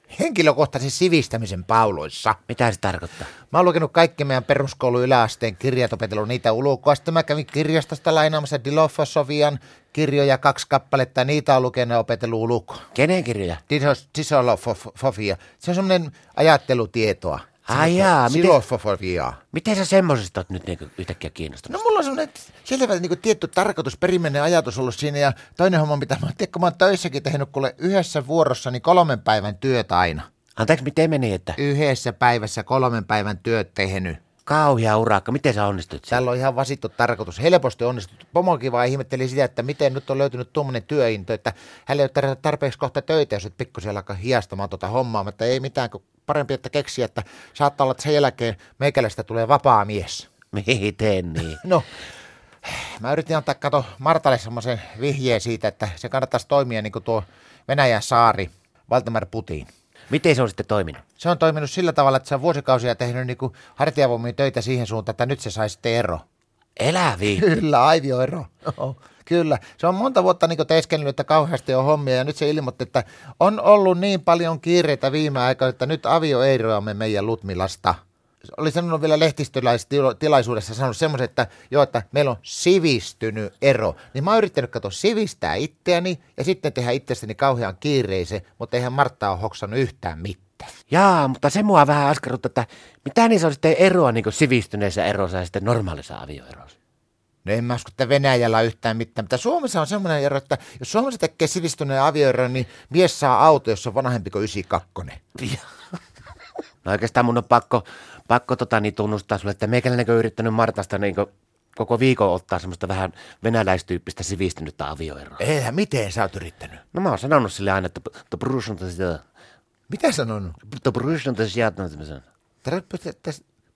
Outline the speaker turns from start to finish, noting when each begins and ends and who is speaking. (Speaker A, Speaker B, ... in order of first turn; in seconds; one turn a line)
Speaker A: 0.1-2.4
Speaker B: 2.5-3.3
Speaker A: 3.5-12.9
Speaker B: 12.9-13.6
Speaker A: 13.7-19.4
Speaker B: 17.7-18.6
Speaker B: 19.5-21.8
Speaker A: 21.7-30.3
Speaker B: 30.6-31.6
Speaker A: 31.6-34.2
Speaker B: 34.5-36.2
Speaker A: 36.1-50.3
Speaker B: 50.5-51.6
Speaker A: 51.6-51.9
Speaker A: 52.6-59.7
Speaker B: 60.1-61.0
Speaker A: 61.2-66.2
Speaker B: 66.8-67.4
Speaker A: 67.2-78.0
Speaker A: 78.5-90.7
Speaker B: 90.9-96.7
Speaker A: 97.4-105.2
Speaker B: 106.8-115.4
Speaker A: 115.4-116.8
Speaker B: 116.9-119.2
Speaker A: 119.9-120.6
Speaker B: 120.6-122.2
Speaker A: 122.6-123.4